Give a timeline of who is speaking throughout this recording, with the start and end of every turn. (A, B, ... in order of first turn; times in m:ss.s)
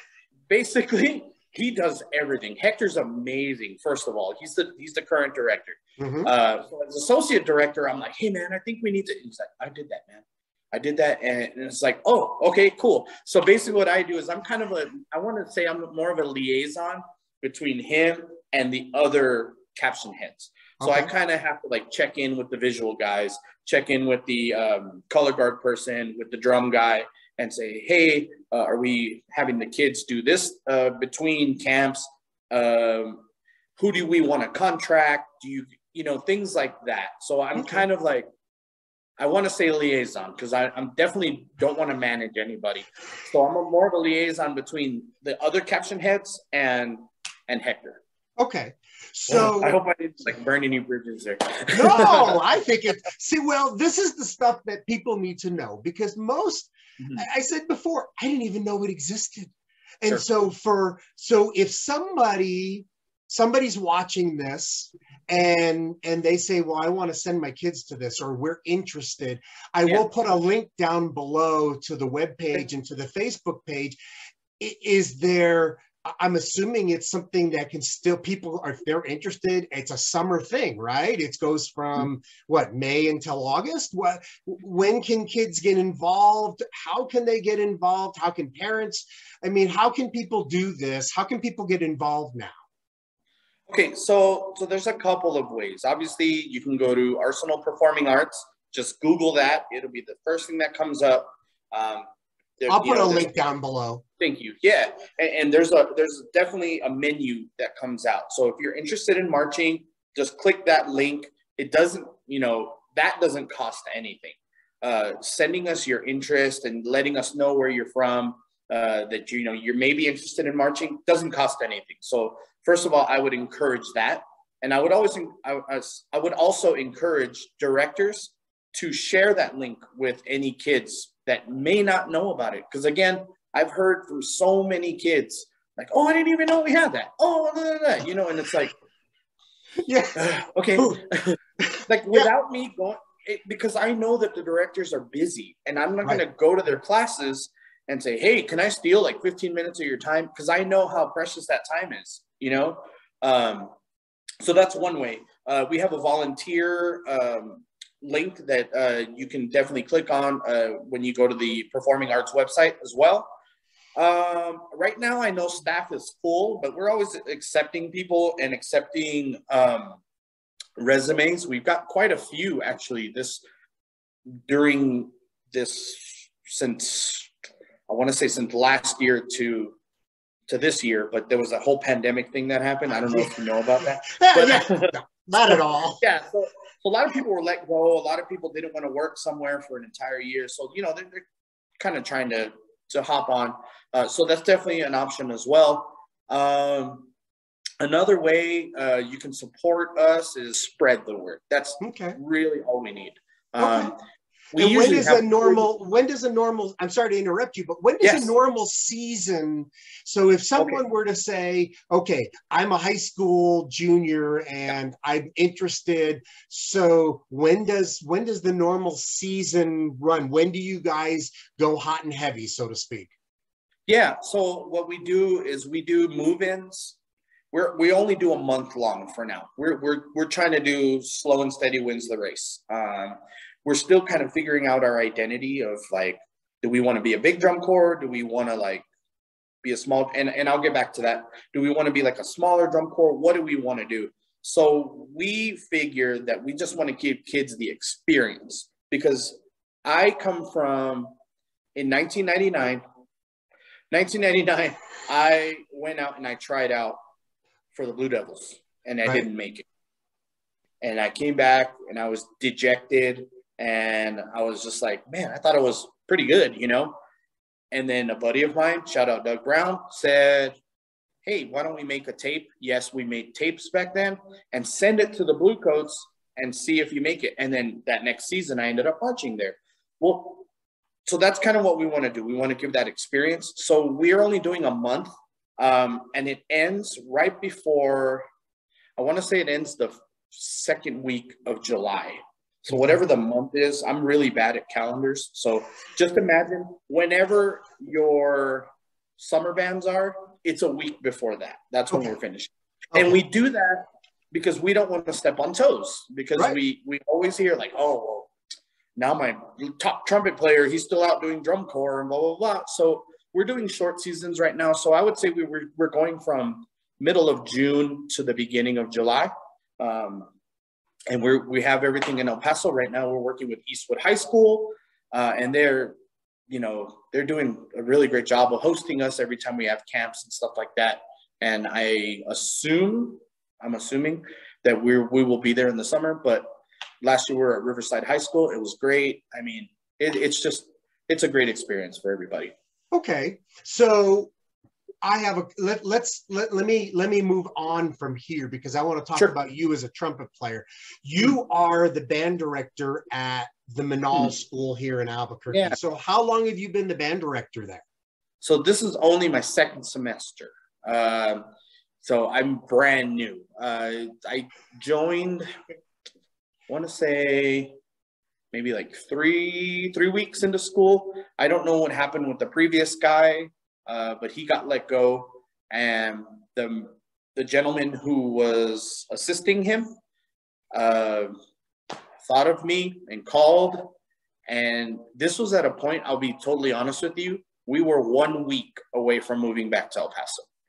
0:00.5-0:33.2 A
0:06.0-0:06.3 B
0:20.8-0:21.1 B
0:33.8-0:38.3 A
0:37.6-0:37.8 B
0:39.2-0:48.0 A
0:48.4-0:49.8 B
0:49.3-0:52.4 A
0:51.7-1:14.0 B
0:57.0-0:57.2 A
1:14.6-1:32.6 B
1:33.7-1:42.1 A
1:42.6-1:43.3 A
1:42.7-1:44.0 B
1:44.2-2:18.7 A
2:19.8-2:20.2 B
2:20.1-2:33.7 A
2:21.6-2:22.3 B
2:34.4-2:43.3 A
2:44.0-2:50.0 A
2:50.8-2:53.4 A
2:54.5-2:57.3 A
2:57.9-2:59.8 A
3:00.5-3:11.2 A
3:02.9-3:06.0 B
3:11.8-3:17.1 A
3:17.8-3:24.0 A
3:21.8-3:22.2 B
3:23.6-3:23.9 B
3:24.5-3:25.6 A
3:24.6-3:43.1 B
3:28.0-3:28.3 A
3:43.9-3:47.0 A
3:47.5-3:58.8 A
3:59.6-4:11.1 A
4:11.7-4:12.8 A
4:13.9-4:17.0 A
4:17.7-4:19.6 A
4:20.8-4:26.9 A
4:27.7-4:30.6 A
4:31.2-4:40.4 A
4:41.0-4:48.2 A
4:49.0-5:08.3 A
5:09.0-5:20.3 A
5:21.1-5:25.9 A
5:26.5-5:36.5 A
5:37.0-5:42.5 A
5:42.9-5:44.3 B
5:45.0-5:57.8 B
5:55.5-5:55.8 A
5:58.4-6:01.5 A
6:02.0-6:05.5 A
6:06.7-6:07.7 A
6:08.5-6:19.9 A
6:20.7-6:21.3 A
6:22.2-6:23.9 A
6:24.5-6:30.4 A